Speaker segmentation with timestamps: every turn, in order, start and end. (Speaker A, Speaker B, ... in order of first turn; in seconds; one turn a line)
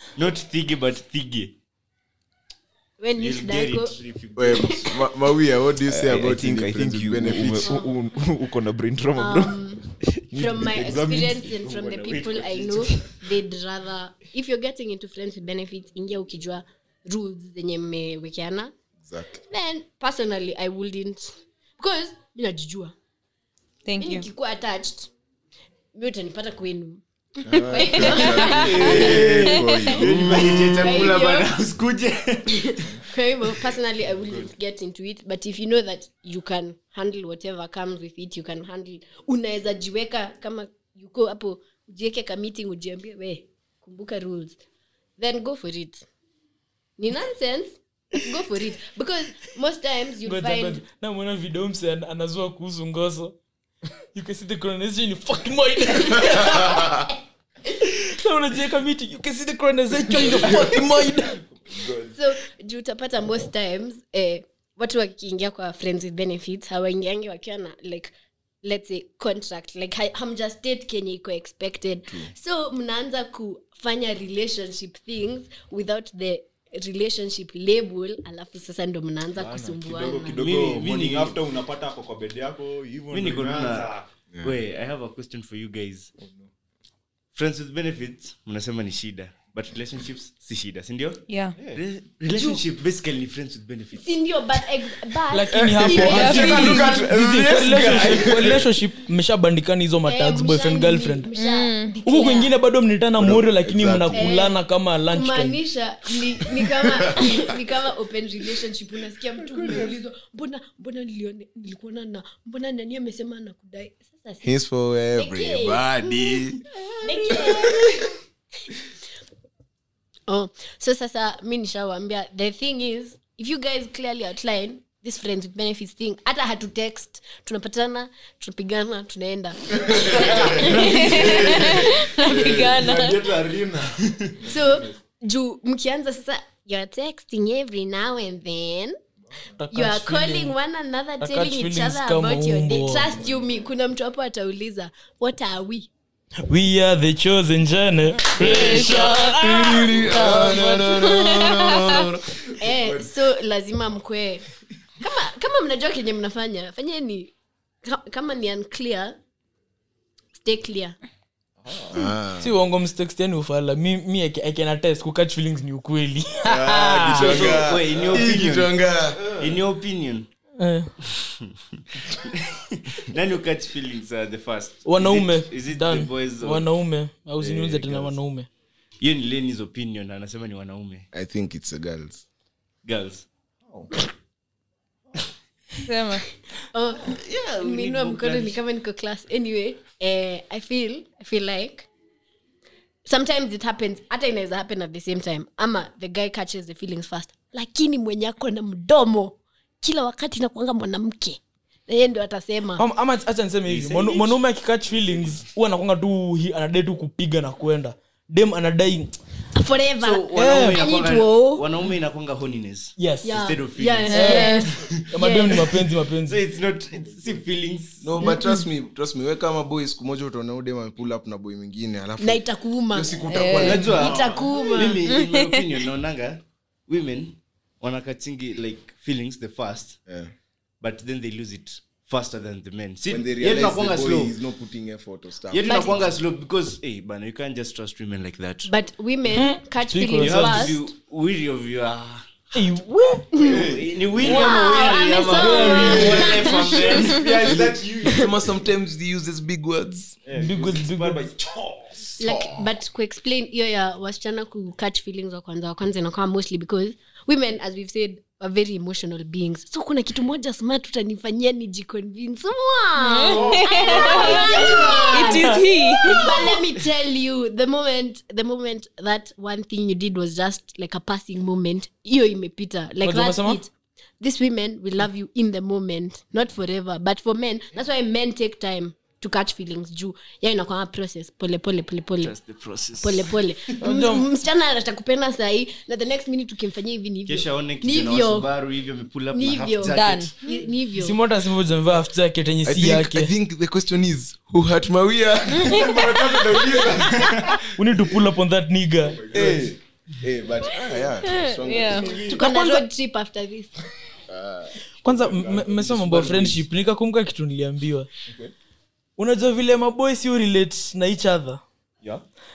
Speaker A: 0.2-1.6
Speaker B: 3.0-4.0
Speaker A: 3.2-5.0
Speaker C: 4.4-7.7
Speaker D: 5.9-9.6
Speaker B: 7.6-8.0
Speaker B: 9.2-18.7
Speaker D: 10.3-11.6
Speaker A: 11.6-13.1
Speaker C: 19.0-19.4
Speaker B: 19.5-22.9
Speaker E: 23.9-24.3
Speaker B: 24.0-25.1
Speaker B: 25.9-29.1
Speaker C: 27.4-31.0
Speaker E: 27.8-28.1
Speaker D: 28.2-31.0
Speaker A: 28.4-32.9
Speaker B: 30.8-31.5
Speaker B: 32.5-44.6
Speaker D: 34.2-34.5
Speaker B: 45.2-46.1
Speaker B: 47.0-50.8
Speaker F: 50.2-53.4
Speaker F: 54.1-57.1
Speaker C: 56.4-57.0
Speaker F: 57.7-61.4
Speaker D: 60.3-62.2
Speaker B: 62.1-80.4
Speaker D: 79.3-84.1
Speaker A: 80.3-81.4
Speaker A: 83.1-86.1
Speaker D: 86.2-86.5
Speaker A: 87.3-94.2
Speaker E: 91.3-91.6
Speaker D: 91.6-91.8
Speaker B: 92.3-92.6
Speaker B: 93.9-97.0
Speaker F: 95.3-101.3
Speaker D: 95.5-98.7
Speaker E: 95.9-97.0
Speaker C: 98.0-98.5
Speaker B: 100.1-102.5
Speaker E: 101.3-102.0
Speaker F: 102.1-105.6
Speaker C: 103.2-104.3
Speaker B: 104.1-104.5
Speaker B: 105.1-114.5
Speaker C: 106.7-107.3
Speaker D: 109.6-109.9
Speaker C: 114.4-116.6
Speaker B: 115.2-116.1
Speaker B: 117.0-118.1
Speaker C: 117.3-118.0
Speaker B: 120.3-133.2
Speaker C: 129.8-130.8
Speaker D: 130.1-135.0
Speaker E: 132.0-132.9
Speaker C: 132.3-132.7
Speaker B: 134.4-139.0
Speaker F: 139.6-140.6
Speaker B: 139.7-145.9
Speaker F: 141.2-143.2
Speaker F: 146.5-150.9
Speaker D: 148.4-148.7
Speaker C: 148.4-153.0
Speaker E: 148.5-149.4
Speaker E: 150.1-152.1
Speaker B: 152.6-154.5
Speaker B: 155.0-157.3
Speaker B: 157.8-159.2
Speaker B: 160.4-161.0
Speaker D: 161.6-162.1
Speaker C: 161.9-162.5
Speaker F: 162.4-167.4
Speaker C: 166.4-169.2
Speaker A: 167.1-168.8
Speaker D: 167.4-168.3
Speaker D: 169.2-169.6
Speaker A: 169.4-170.3
Speaker F: 170.6-170.9
Speaker A: 171.1-176.7
Speaker F: 174.8-178.5
Speaker A: 177.4-178.2
Speaker A: 179.0-181.1
Speaker C: 181.1-182.2
Speaker A: 182.8-183.3
Speaker E: 185.8-186.3
Speaker B: 186.7-191.9
Speaker A: 187.0-188.6
Speaker B: 193.1-202.8
Speaker F: 202.8-209.1
Speaker A: 203.7-204.4
Speaker B: 209.5-211.6
Speaker A: 210.0-215.0
Speaker F: 210.3-210.8
Speaker F: 213.0-213.4
Speaker B: 213.2-215.7
Speaker F: 214.1-216.4
Speaker E: 214.2-214.7
Speaker A: 216.2-218.3
Speaker D: 216.9-217.4
Speaker C: 218.0-224.1
Speaker B: 222.2-225.1
Speaker E: 223.3-224.0
Speaker A: 223.6-230.0
Speaker D: 224.1-224.5
Speaker E: 225.1-225.7
Speaker C: 230.1-230.3
Speaker A: 230.8-234.4
Speaker C: 233.1-236.1
Speaker A: 235.5-238.7
Speaker B: 235.6-236.1
Speaker B: 238.7-240.9
Speaker F: 239.3-240.8
Speaker A: 240.2-242.2
Speaker F: 242.5-243.4
Speaker B: 243.3-243.7
Speaker D: 243.4-244.5
Speaker A: 243.5-247.5
Speaker B: 244.2-247.2
Speaker F: 244.2-246.4
Speaker D: 245.6-248.5
Speaker C: 247.4-250.2
Speaker D: 250.2-252.2
Speaker F: 250.3-251.3
Speaker B: 252.2-282.4
Speaker C: 252.2-252.7
Speaker E: 263.0-266.3
Speaker D: 263.3-265.3
Speaker F: 265.3-265.6
Speaker F: 273.0-273.6
Speaker A: 282.2-283.4
Speaker B: 283.0-288.5
Speaker F: 283.8-284.3
Speaker A: 287.3-290.3
Speaker B: 289.3-291.2
Speaker E: 289.9-290.6
Speaker F: 290.9-293.3
Speaker C: 292.6-297.4
Speaker D: 295.7-297.7
Speaker F: 297.8-299.3
Speaker D: 299.1-299.8
Speaker C: 299.3-302.3
Speaker E: 301.2-302.1
Speaker D: 301.7-302.4
Speaker B: 302.3-303.8
Speaker F: 302.4-302.9
Speaker C: 304.3-304.8
Speaker F: 305.0-308.1
Speaker D: 305.0-306.7
Speaker D: 308.3-308.5
Speaker F: 309.2-311.6